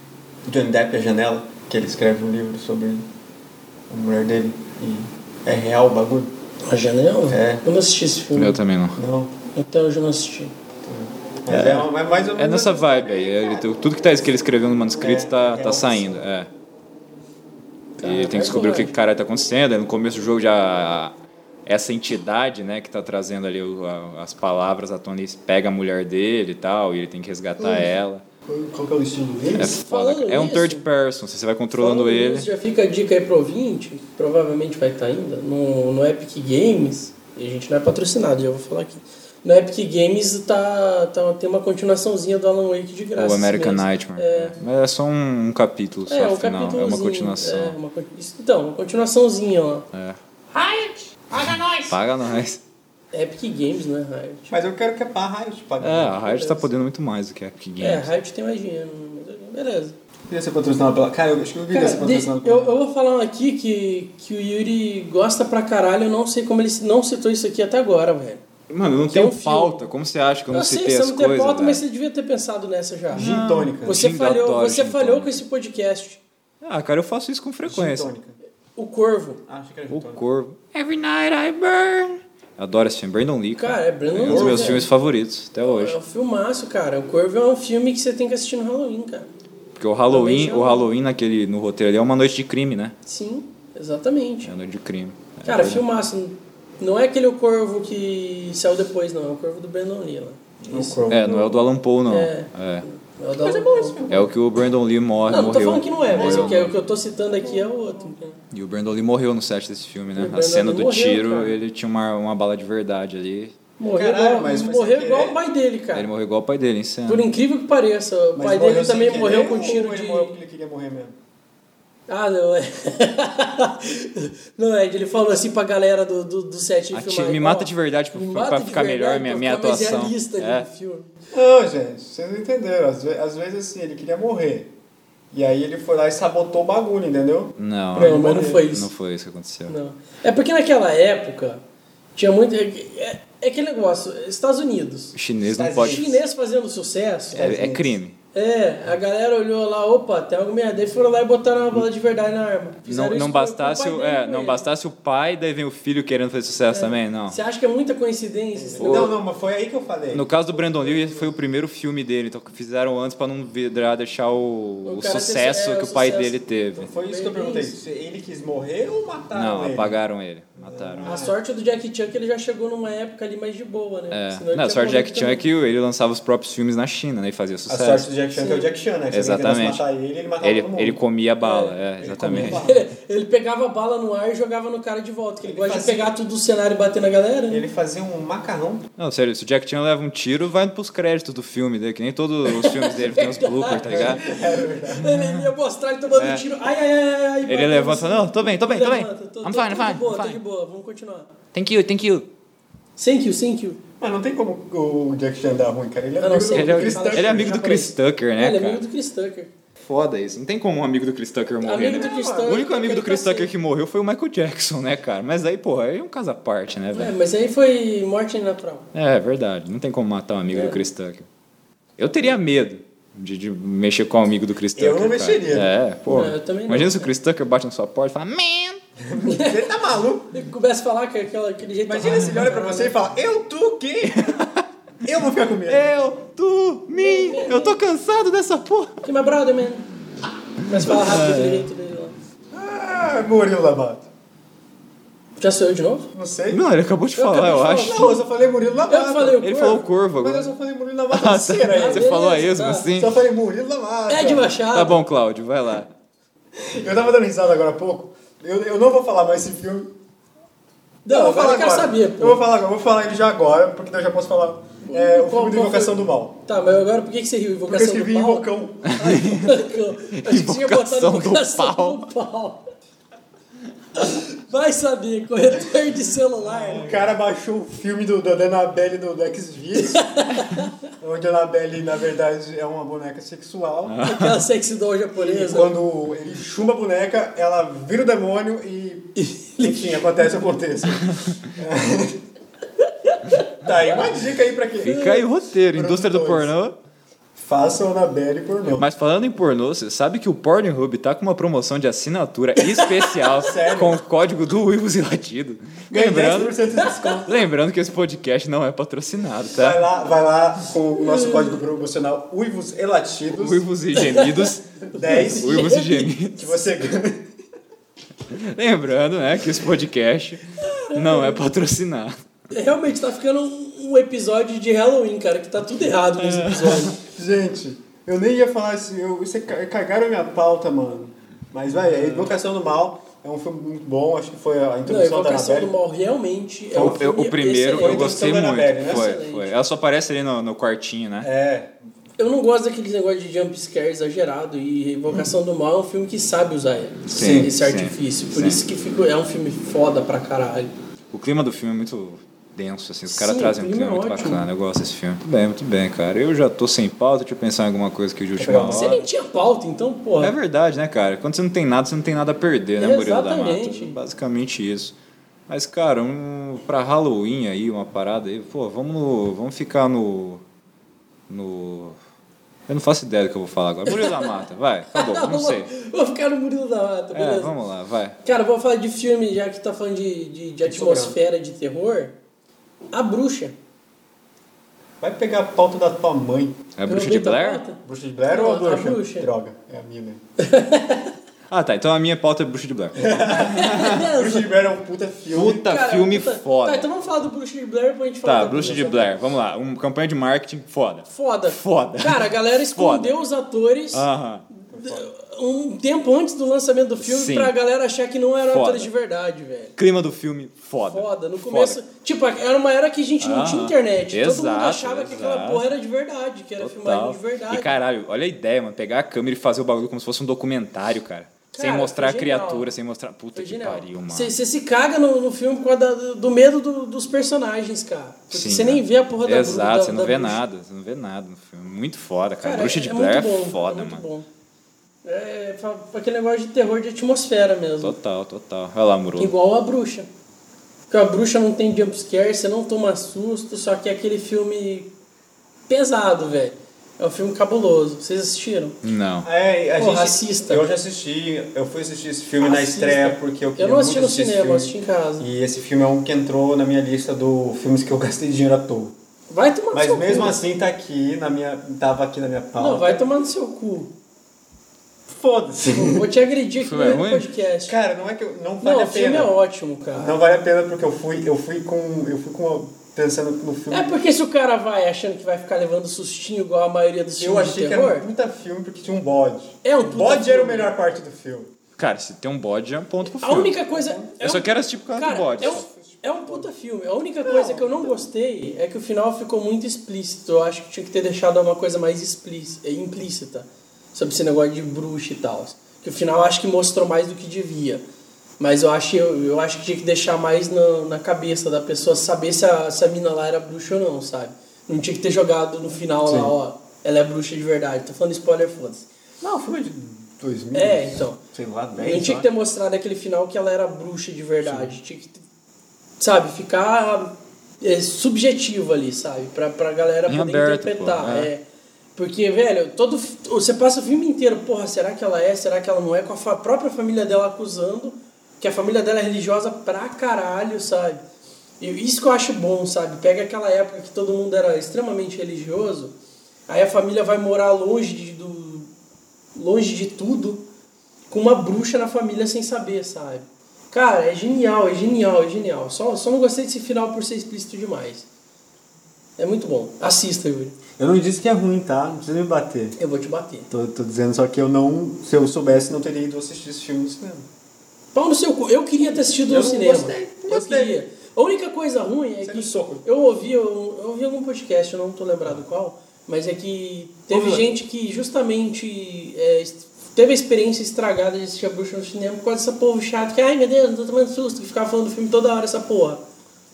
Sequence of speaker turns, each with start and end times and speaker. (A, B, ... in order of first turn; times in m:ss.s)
0:00.5-0:03.1 A
0:03.9-0:06.3 A
0:06.6-0:08.6 B
0:07.3-0:07.6 A
0:08.4-0:09.0 C
0:09.0-0:09.3 A
0:09.5-0:10.5 B
0:10.8-0:13.4 A
0:11.5-0:16.5 C
0:15.0-0:16.3 A
0:18.0-0:21.1 C
0:18.0-0:18.9 B
0:21.7-0:28.2 C
0:27.6-0:28.0 A
0:28.5-0:29.8 A
0:29.6-0:32.5 C
0:29.7-0:30.8 B
0:31.8-0:44.6 B
0:43.2-0:47.8 C
0:46.1-0:49.9 B
0:49.9-0:50.2 C
0:50.5-0:52.0 B
0:51.4-0:52.6 C
0:53.1-0:54.6 B
0:54.5-0:56.4 A
0:55.8-0:58.1 C
0:56.3-0:56.6 B
0:57.8-1:00.0 B
1:00.3-1:02.8 A
1:01.7-1:09.8 B
1:08.7-1:11.8 C
1:10.5-1:13.3 B
1:13.1-1:14.0 A
1:13.1-1:15.4 C
1:13.8-1:16.2 B
1:16.6-1:18.1 C
1:17.6-1:18.4 A
1:18.8-1:19.4 B
1:19.5-1:20.2 A
1:19.9-1:26.0 C
1:23.6-1:24.9 B
1:24.2-1:24.9 A
1:25.6-1:29.3 B
1:29.8-1:33.0 C
1:30.1-1:30.9 B
1:33.0-1:34.5 B
1:34.4-1:35.8 C
1:35.4-1:44.0 B
1:40.6-1:41.6 A
1:41.1-1:42.8 C
1:43.3-1:44.3 A
1:44.1-1:46.7 C
1:45.3-1:48.4 B
1:46.1-1:46.7 A
1:47.4-1:47.7 A
1:48.5-1:53.5 C
1:50.2-1:51.6 B
1:53.8-1:56.1 B
1:53.9-1:55.4 A
1:55.9-1:57.3 C
1:57.1-2:00.4 B
1:58.4-2:01.2 A
2:02.1-2:11.1 B
2:06.9-2:10.7 C
2:11.3-2:14.7 A
2:15.3-2:18.6 A
2:17.6-2:19.8 C
2:17.9-2:18.9 B
2:19.7-2:21.6 B
2:22.2-2:25.2 B
2:25.2-2:26.0 C
2:25.5-2:26.2 A
2:25.8-2:27.5 B
2:27.3-2:28.0 A
2:27.4-2:28.2 C
2:28.3-2:34.7 B
2:32.8-2:37.4 C
2:36.7-2:39.1 B
2:38.6-2:41.3 A
2:38.8-2:39.1 C
2:40.1-2:46.9 C
2:44.8-2:46.4 B
2:46.8-2:50.0 A
2:47.0-2:47.7 B
2:49.3-2:51.1 C
2:50.6-2:51.4 A
2:51.0-2:55.4 B
2:54.1-2:58.1 C
2:57.7-3:01.0 A
2:58.4-2:58.7 B
2:59.1-2:59.8 C
3:00.4-3:02.6 C
3:01.4-3:01.7 B
3:02.0-3:02.8 A
3:02.3-3:07.6 B
3:05.4-3:06.1 A
3:07.5-3:08.9 A
3:09.0-3:14.2 C
3:12.5-3:21.3 B
3:13.8-3:15.1 A
3:15.0-3:15.5 C
3:16.2-3:16.4 C
3:17.5-3:20.4 C
3:21.5-3:22.3 C
3:23.0-3:23.8 B
3:24.0-3:27.6 A
3:26.2-3:29.5 B
3:26.5-3:28.8 C
3:29.8-3:37.1 C
3:31.6-3:33.5 B
3:31.9-3:32.7 A
3:36.9-3:38.9 B
3:38.9-3:41.3 C
3:40.5-3:40.8 B
3:42.0-3:48.8 C
3:44.8-3:45.7 A
3:46.1-3:47.1 B
3:49.0-3:50.4 A
3:49.2-3:49.7 B
3:50.3-3:52.9 B
3:51.9-3:54.4 A
3:54.2-3:54.6 C
3:55.0-3:55.9 A
3:55.7-3:59.0 C
3:57.0-3:57.8 B
3:59.0-3:59.9 B
4:00.6-4:02.2 B
4:00.7-4:01.7 C
4:02.5-4:04.1 A
4:05.4-4:06.1 B
4:06.1-4:06.6 A
4:06.5-4:08.1 C
4:07.2-4:08.2 B
4:07.8-4:09.5 A
4:08.9-4:09.8 B
4:09.4-4:10.5 C
4:10.2-4:12.2 A
4:11.1-4:13.2 C
4:11.7-4:12.9 B
4:12.9-4:14.6 A
4:14.1-4:15.0 B
4:14.7-4:15.9 C
4:16.6-4:19.9 A
4:21.0-4:22.4 B
4:21.1-4:26.4 A
4:24.8-4:32.7 B
4:27.7-4:29.0 A
4:28.9-4:32.1 C
4:34.0-4:37.0 B
4:36.5-4:40.1 A
4:39.8-4:40.7 B
4:41.0-4:44.0 A
4:43.9-4:44.4 C
4:44.0-4:45.8 B
4:45.2-4:52.2 A
4:49.2-4:50.1 B
4:51.0-4:51.4 C
4:53.0-4:53.4 B
4:53.6-4:56.5 A
4:54.8-4:56.8 C
4:57.4-4:58.9 A
4:58.8-5:06.6 C
5:03.3-5:04.0 A
5:05.9-5:07.4 A
5:06.8-5:07.2 B
5:07.3-5:09.8 C
5:09.5-5:13.6 A
5:11.1-5:11.5 B
5:13.3-5:16.6 C
5:13.9-5:16.2 B
5:14.9-5:15.6 A
5:16.4-5:17.4 A
5:18.3-5:22.2 C
5:20.6-5:21.4 B
5:22.5-5:27.0 B
5:26.2-5:26.9 C
5:27.0-5:35.7 A
5:34.8-5:39.5 B
5:36.7-5:37.0 A
5:36.8-5:41.3 C
5:37.8-5:39.1 A
5:41.2-5:41.7 A
5:42.2-5:50.7 B
5:47.1-5:48.6 C
5:47.1-5:47.6 A
5:51.1-5:59.1 C
5:53.1-5:54.5 B
5:58.4-5:59.0 A
5:58.6-6:00.3 B
6:00.2-6:05.0 C
6:02.8-6:04.0 B
6:05.5-6:10.4 C
6:11.3-6:12.0 C
6:12.7-6:15.7 C
6:13.9-6:14.3 B
6:14.9-6:17.6 B
6:17.1-6:18.2 C
6:18.2-6:22.2 B
6:20.6-6:21.2 A
6:22.9-6:23.6 B
6:25.0-6:26.6 A
6:26.8-6:27.6 C
6:26.8-6:29.3 B
6:27.8-6:30.2 A
6:30.4-6:31.1 B
6:31.5-6:34.0 C
6:33.0-6:35.7 A
6:33.3-6:34.5 B
6:35.3-6:36.9 C
6:35.6-6:39.1 B
6:38.2-6:43.2 C
6:41.1-6:44.1 B
6:43.9-6:44.5 C
6:44.6-6:49.8 B
6:44.7-6:45.1 A
6:47.0-6:47.5 C
6:48.5-6:48.9 C
6:49.8-6:51.8 C
6:50.9-6:57.7 B
6:53.2-6:55.7 C
6:56.6-7:04.3 C
7:01.5-7:02.7 B
7:03.4-7:10.4 B
7:08.3-7:14.0 C
7:12.4-7:14.2 B
7:15.0-7:18.0 B
7:17.8-7:19.3 C
7:19.2-7:20.1 B
7:20.9-7:24.9 B
7:25.7-7:28.8 B
7:28.8-7:29.3 C
7:29.2-7:38.9 A
7:29.8-7:30.6 B
7:32.4-7:35.3 B
7:39.3-7:40.4 B
7:39.7-7:43.0 A
7:42.6-7:43.9 B
7:45.1-7:46.1 A
7:45.7-7:47.8 B
7:46.6-7:47.3 C
7:47.7-7:49.4 A
7:48.6-7:50.2 B
7:49.9-7:54.0 A
7:53.7-7:58.1 B
7:57.2-8:01.5 A
7:59.6-8:00.7 B
8:01.8-8:03.6 C
8:03.1-8:17.8 B
8:03.7-8:04.2 A
8:04.2-8:05.7 C
8:05.4-8:06.5 A
8:07.2-8:08.0 A
8:18.4-8:28.9 B
8:26.0-8:26.3 A
8:29.2-8:32.3 A
8:30.5-8:31.2 B
8:31.8-8:35.2 B
8:34.4-8:34.8 A
8:36.0-8:41.4 B
8:40.1-8:41.3 C
8:42.0-8:51.0 B
8:51.6-8:56.0 B
8:56.5-8:58.7 B
8:59.4-9:00.5 B
9:01.1-9:08.1 B
9:09.2-9:10.6 B
9:10.8-9:12.8 A
9:12.8-9:13.5 B
9:13.5-9:17.3 A
9:17.9-9:36.0 B
9:19.3-9:20.8 A
9:22.2-9:22.9 A
9:27.1-9:27.5 A